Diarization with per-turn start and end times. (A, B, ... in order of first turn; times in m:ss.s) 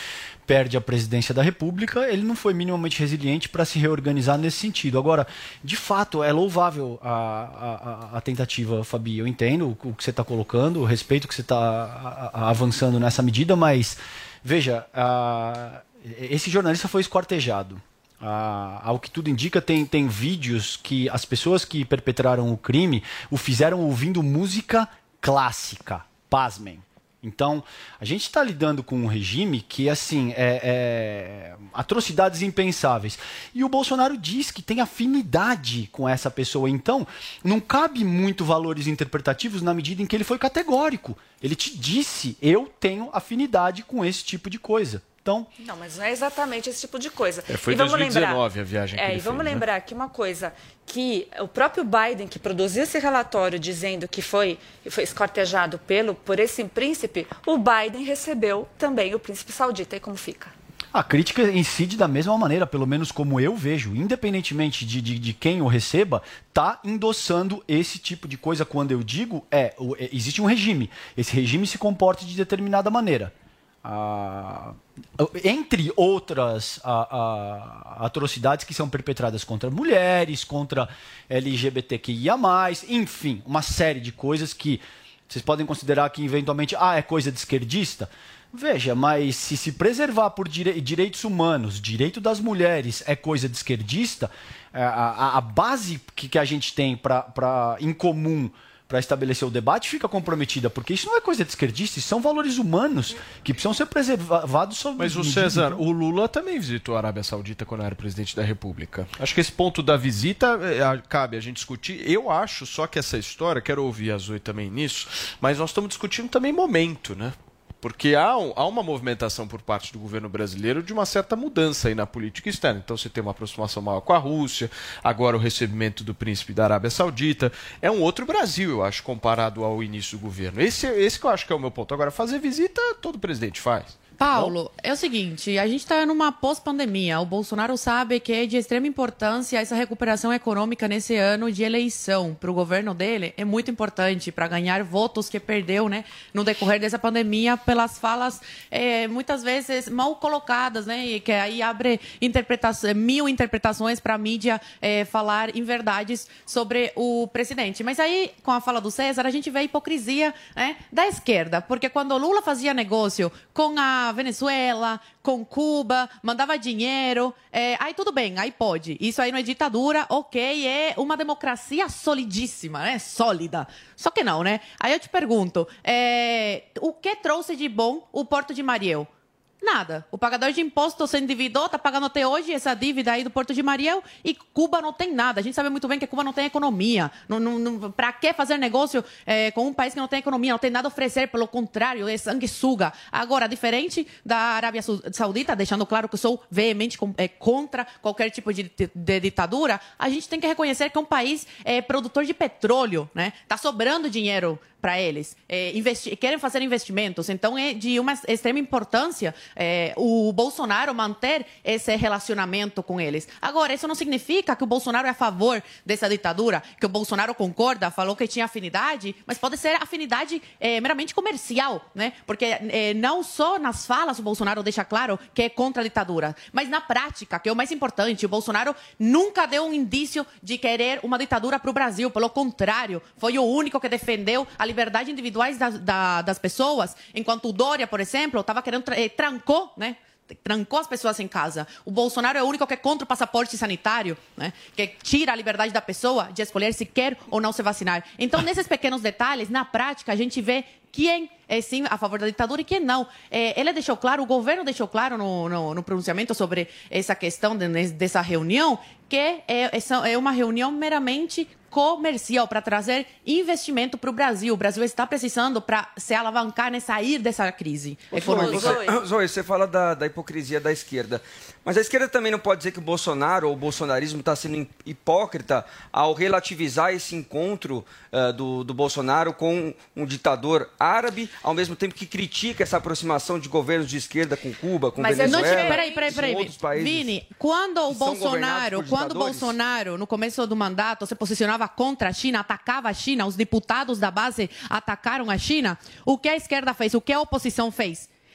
0:00.4-0:45.5 A
0:45.6-0:48.4 B
0:47.5-0:49.6 C
0:49.0-1:00.5 B
1:00.9-1:45.8 A
1:45.0-2:14.5 C
2:14.2-2:59.1 D
2:59.6-4:28.8 D
4:28.1-4:47.2 E
4:28.4-4:29.0 B
4:45.0-4:46.2 B
4:45.2-4:58.1 D
4:47.9-4:49.6 E